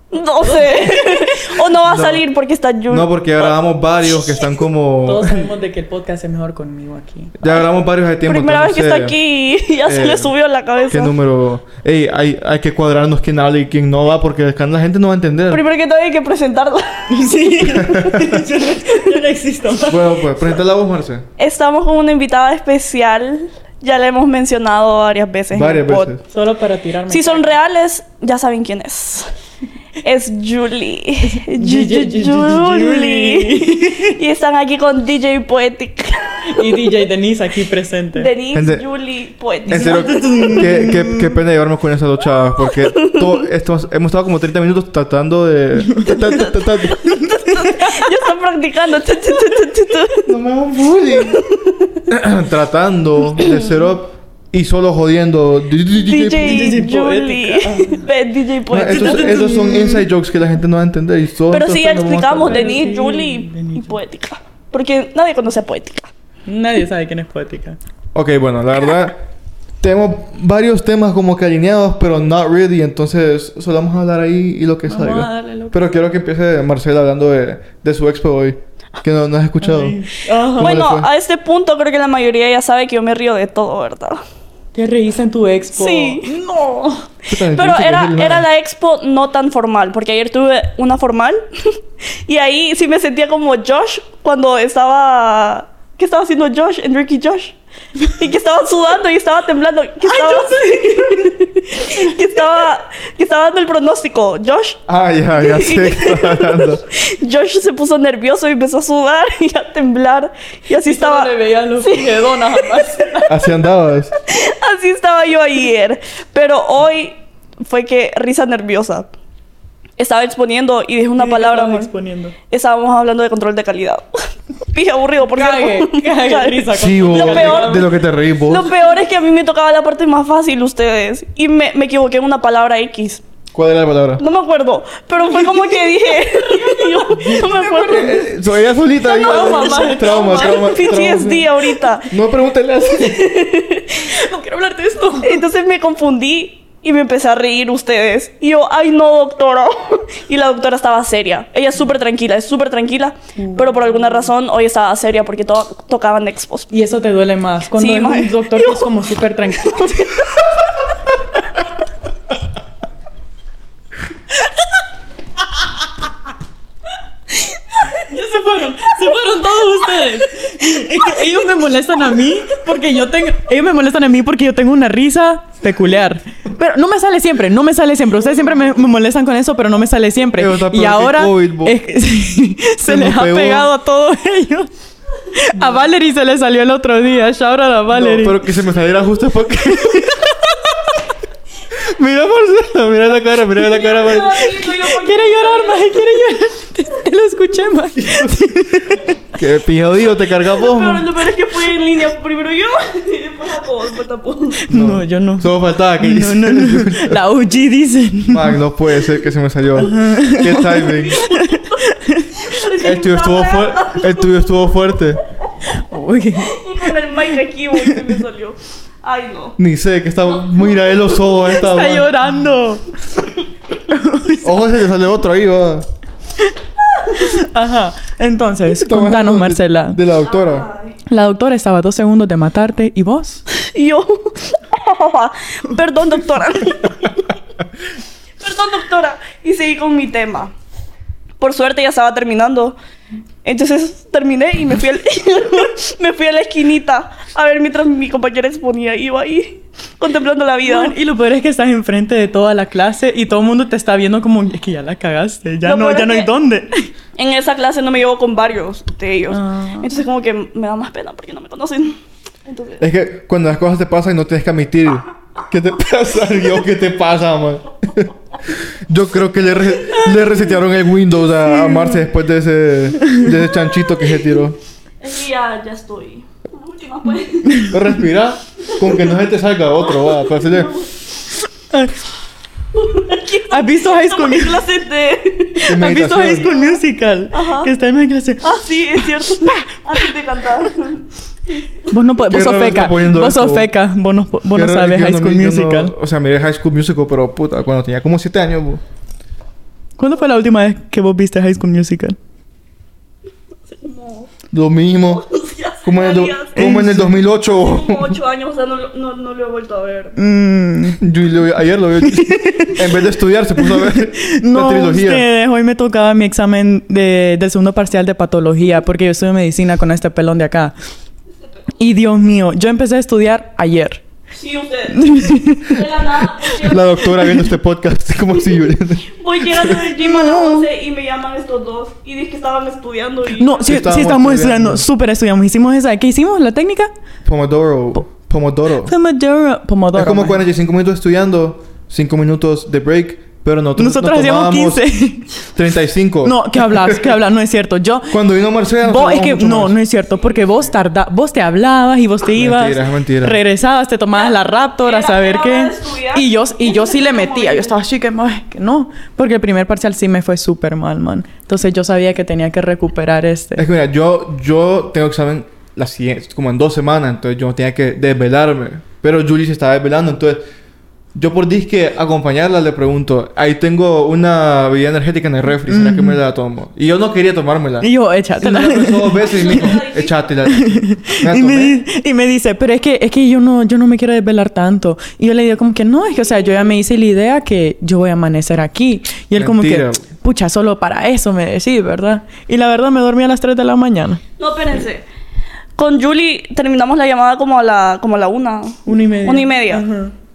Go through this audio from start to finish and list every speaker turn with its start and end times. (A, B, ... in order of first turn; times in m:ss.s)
0:00.1-0:04.5 A
0:00.4-0:01.7 B
0:01.8-0:02.2 C
0:02.9-0:05.5 C
0:05.0-0:07.4 B
0:07.4-0:09.2 C
0:08.2-0:11.2 A
0:09.8-0:10.3 C
0:10.9-0:15.6 C
0:15.5-0:17.4 A
0:17.1-0:20.2 B
0:17.6-0:18.3 C
0:19.8-0:21.3 C
0:21.4-0:26.1 A
0:25.5-0:26.2 C
0:26.2-0:27.6 B
0:27.1-0:29.3 A
0:30.0-0:37.0 A
0:31.2-0:34.2 B
0:36.5-0:38.3 B
0:38.2-0:40.7 A
0:38.5-0:38.9 C
0:39.7-0:41.3 B
0:39.7-0:47.0 C
0:42.8-0:43.4 A
0:46.3-0:50.3 A
0:47.5-0:48.0 B
0:50.2-0:51.4 C
0:51.2-0:52.0 A
0:52.1-0:56.8 C
0:56.0-0:59.4 A
0:56.3-0:58.1 B
0:58.7-1:02.8 C
0:58.9-1:00.1 B
1:01.5-1:06.1 A
1:02.4-1:04.0 B
1:06.5-1:07.8 B
1:08.2-1:09.2 C
1:09.8-1:20.0 C
1:14.9-1:15.8 B
1:19.6-1:20.8 B
1:20.5-1:24.2 A
1:20.6-1:21.1 C
1:24.8-1:27.1 B
1:25.7-1:26.3 A
1:27.3-1:28.5 C
1:27.5-1:31.4 A
1:32.1-1:44.8 A
1:40.1-1:42.1 B
1:44.9-1:46.8 C
1:45.4-1:52.9 A
1:50.8-1:53.4 B
1:53.3-1:54.1 C
1:54.3-1:59.1 A
2:00.0-2:01.9 A
2:01.2-2:02.4 B
2:02.5-2:07.8 A
2:05.3-2:07.9 B
2:06.8-2:08.7 C
2:08.5-2:13.2 A
2:13.5-2:14.2 C
2:14.2-2:18.3 A
2:15.4-2:15.7 B
2:16.3-2:18.3 B
2:17.8-2:21.5 C
2:19.0-2:22.1 A
2:19.1-2:20.7 B
2:22.0-2:23.4 C
2:22.9-2:24.1 A
2:24.0-2:25.4 B
2:25.2-2:36.7 A
2:33.4-2:34.3 B
2:36.7-2:40.3 B
2:37.8-2:38.8 A
2:39.6-2:40.3 A
2:48.1-3:04.7 B
3:00.4-3:01.8 C
3:02.9-3:03.7 C
3:05.3-3:08.5 B
3:07.9-3:10.1 C
3:09.6-3:11.0 B
3:11.8-3:14.6 C
3:13.6-3:15.9 A
3:14.5-3:19.2 B
3:19.3-3:21.1 C
3:20.5-3:24.6 A
3:24.7-3:27.2 C
3:24.7-3:28.6 B
3:28.3-3:31.2 C
3:29.8-3:32.6 B
3:31.2-3:31.7 A
3:32.4-3:34.5 A
3:32.8-3:35.2 C
3:35.7-3:38.2 B
3:36.4-3:39.6 A
3:39.6-3:42.1 C
3:40.5-3:41.3 A
3:41.5-3:42.9 B
3:43.9-3:44.5 B
3:44.4-3:45.9 C
3:47.1-3:50.0 B
3:48.7-3:50.7 C
3:50.2-3:51.0 A
3:51.1-3:53.4 B
3:53.5-3:57.3 A
3:58.4-4:00.5 A
4:01.4-4:02.8 A
4:03.4-4:10.9 A
4:10.6-4:16.9 B
4:15.6-4:16.3 A
4:17.2-4:22.0 A
4:19.3-4:19.9 B
4:22.5-4:22.8 A
4:22.8-4:34.6 C
4:35.0-4:37.7 A
4:37.7-4:40.8 C
4:39.9-4:40.9 A
4:41.7-4:42.0 B
4:42.8-4:45.7 A
4:43.5-4:44.7 B
4:45.6-4:49.6 B
4:45.6-4:46.5 C
4:46.3-4:46.8 A
4:47.3-4:47.7 A
4:48.4-4:51.0 A
4:51.9-4:55.9 B
4:52.3-4:53.7 C
4:54.5-4:58.8 C
5:00.0-5:02.2 B
5:03.7-5:04.3 A
5:04.5-5:05.2 C
5:05.1-5:06.7 A
5:05.8-5:08.2 C
5:06.6-5:07.2 B
5:07.4-5:10.2 A
5:10.2-5:11.0 B
5:11.0-5:15.3 C
5:12.0-5:12.8 B
5:13.6-5:20.8 B
5:21.8-5:24.0 B
5:24.4-5:27.1 A
5:24.9-5:27.5 B
5:26.6-5:29.8 C
5:29.1-5:33.6 A
5:29.8-5:30.7 B
5:33.4-5:36.9 B
5:33.7-5:34.8 C
5:37.2-5:38.9 C
5:38.8-5:40.4 B
5:39.9-5:44.8 C
5:43.8-5:45.3 B
5:45.5-5:47.1 C
5:46.2-5:48.2 B
5:48.1-5:49.8 C
5:48.8-6:03.7 B
5:52.4-5:53.4 C
5:54.2-5:57.7 A
6:03.6-6:10.4 C
6:11.2-6:21.8 C
6:15.7-6:16.2 B
6:17.8-6:19.8 B
6:19.2-6:20.1 A
6:20.5-6:34.2 B
6:29.4-6:30.1 C
6:34.4-6:35.0 A
6:35.8-6:39.8 A
6:38.9-6:40.1 B